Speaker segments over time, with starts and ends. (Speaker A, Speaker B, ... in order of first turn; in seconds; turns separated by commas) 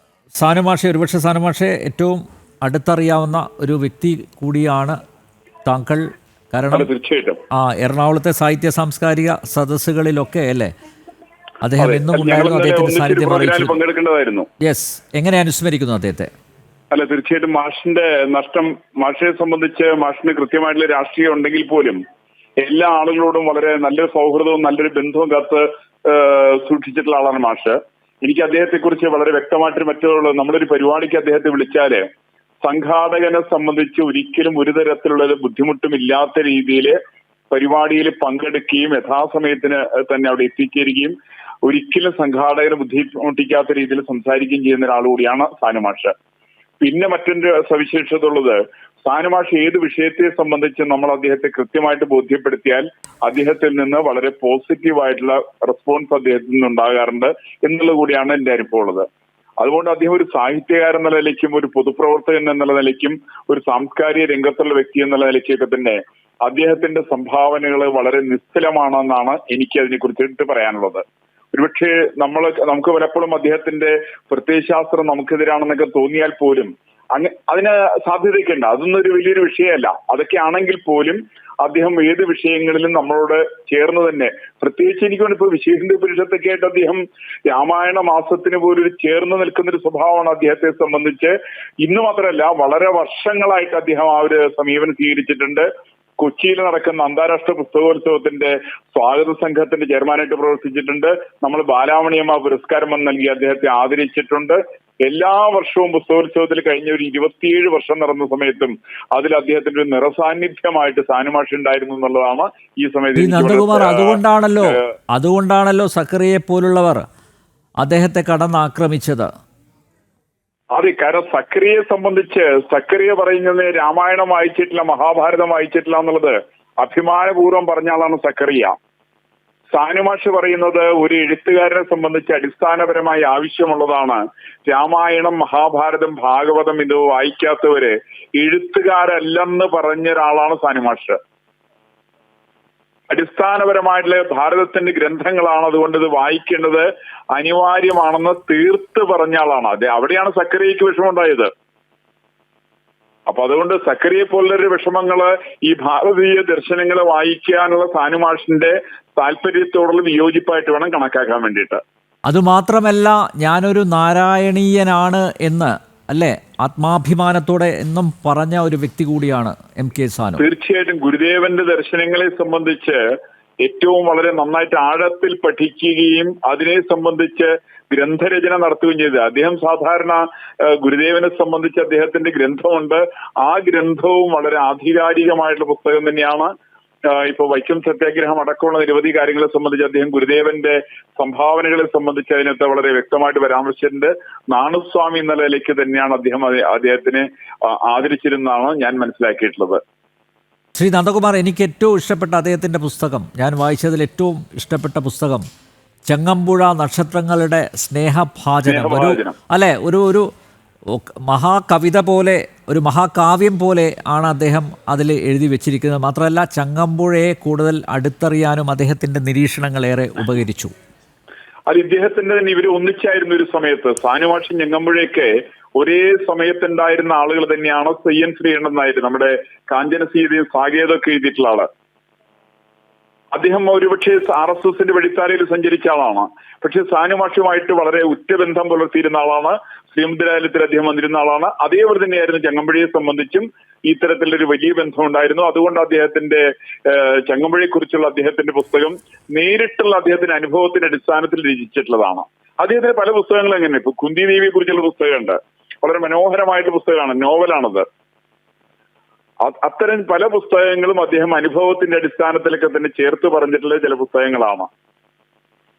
Speaker A: 0.4-5.0, Speaker A: 5.7-6.9, Speaker B: 6.7-7.4, Speaker A: 7.5-10.7, Speaker A: 11.6-13.8, Speaker B: 11.8-14.5, Speaker A: 14.6-16.3, Speaker B: 16.9-22.0, Speaker B: 22.6-32.0, Speaker B: 32.6-37.0, Speaker B: 37.5-46.1, Speaker B: 46.8-59.1, Speaker B: 59.6-95.7, Speaker B: 96.2-114.8, Speaker A: 113.2-117.0, Speaker A: 117.8-119.3, Speaker B: 120.7-128.8, Speaker B: 129.7-141.2, Speaker B: 143.1-151.5, Speaker B: 153.3-161.8, Speaker A: 162.3-170.4, Speaker B: 170.4-173.0, Speaker B: 173.6-186.5, Speaker B: 187.1-199.8, Speaker A: 200.8-205.4, Speaker A: 206.1-210.3, Speaker B: 208.7-209.4, Speaker A: 210.9-220.7, Speaker B: 221.7-231.7, Speaker B: 233.3-257.9, Speaker B: 259.4-264.7